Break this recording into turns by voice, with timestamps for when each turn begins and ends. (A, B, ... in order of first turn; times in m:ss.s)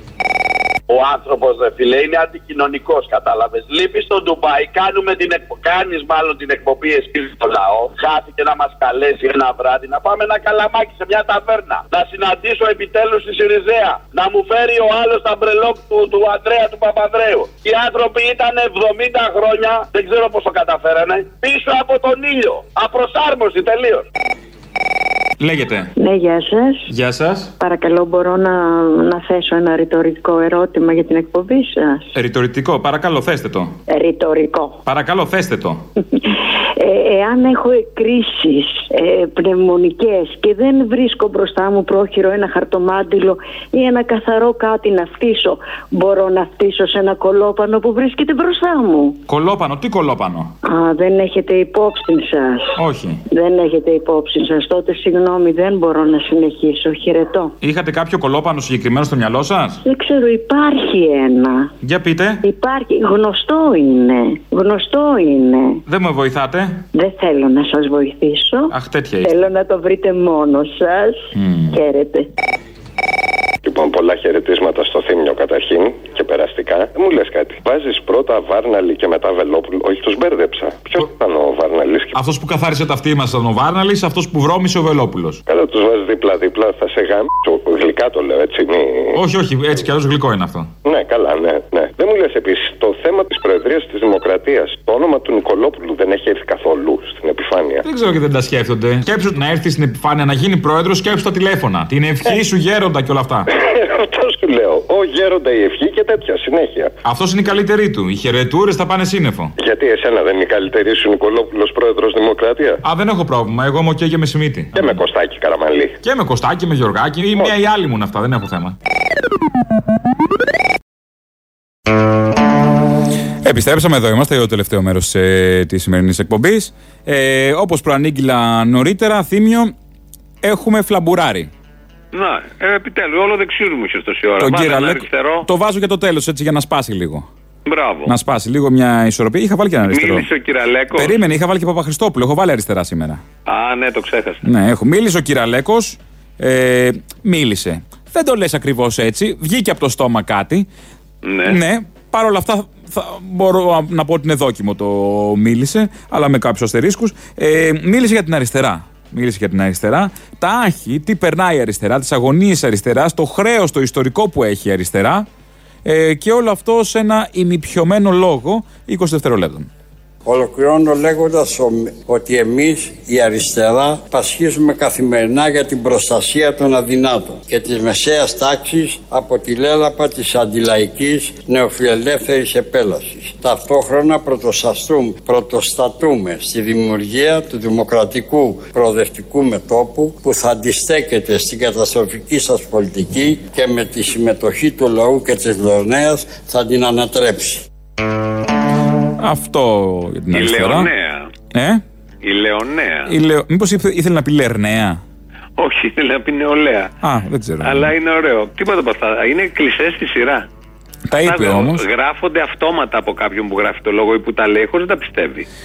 0:00.9-0:24.0 A
0:25.4-0:25.9 B
0:26.0-0:26.9 C
0:26.9-0:27.5 B
0:27.6-0:32.1 C
0:32.1-0:33.8 B
0:33.9-0:34.8 C
0:34.8-0:35.8 B
0:36.1-0:49.2 C
0:49.3-0:50.5 B
0:50.6-0:52.8 C
0:52.8-0:53.2 B
0:53.3-0:57.6 C
0:57.6-0:59.8 B
0:59.8-1:01.7 C
1:01.8-1:02.4 B
1:02.4-1:05.8 C
1:05.9-1:06.8 B
1:06.9-1:12.3 C
1:08.7-1:09.3 B
1:11.3-1:11.7 B
1:13.6-1:22.1 D
1:22.1-1:25.4 B
1:25.5-1:29.2 D
1:29.1-1:30.7 B
1:30.8-1:37.8 D
1:37.8-1:43.4 B
1:43.5-1:46.9 D
1:47.0-1:49.5 B
1:49.6-1:52.8 D
1:52.8-1:54.9 B
1:54.7-1:56.0 D
1:56.0-1:58.7 B
2:03.4-2:09.7 B
2:10.4-2:11.5 B
2:12.1-2:15.5 E
2:14.4-2:17.3 B
2:17.6-2:18.1 E
2:18.0-2:20.2 B
2:19.9-2:21.2 E
2:20.9-2:23.2 B
2:23.5-2:24.4 E
2:24.4-2:30.7 B
2:31.2-2:31.6 E
2:31.4-2:45.3 B
2:45.8-2:49.7 B
2:50.2-3:17.6 F
3:19.2-3:20.9 B
3:20.3-3:21.3 E
3:21.5-3:21.8 B
3:22.2-3:23.1 E
3:23.1-3:25.0 B
3:25.6-3:26.9 E
3:27.0-3:27.9 B
3:27.6-3:30.4 E
3:31.1-3:31.8 B
3:31.2-3:35.5 E